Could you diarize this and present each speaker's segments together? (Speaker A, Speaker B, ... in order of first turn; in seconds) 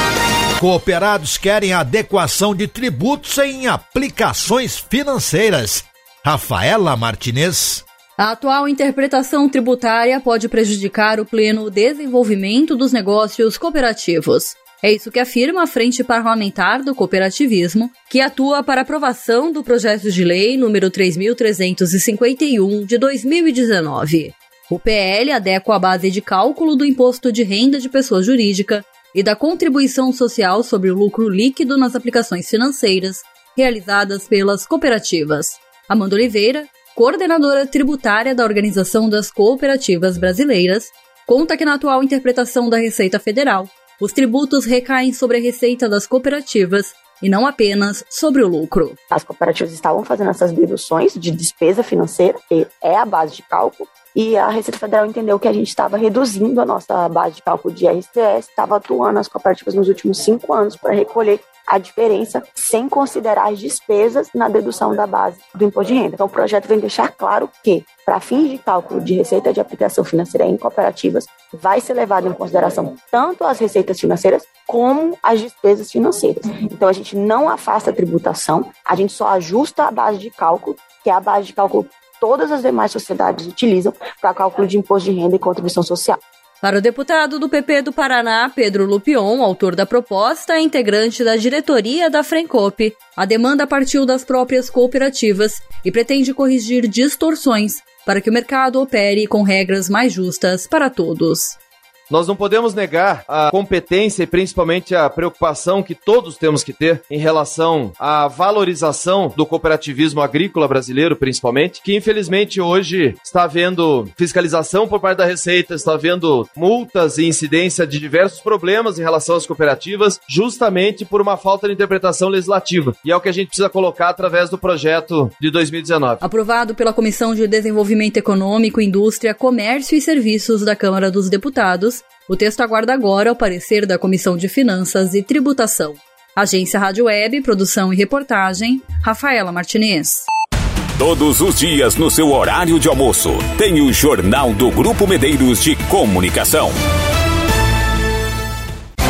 Speaker A: 0.6-7.8
Speaker B: 8.2-49.0, 86.6-101.6, 126.2-140.3
Speaker C: 49.1-86.2
Speaker D: 102.1-126.2
Speaker E: 141.0-146.8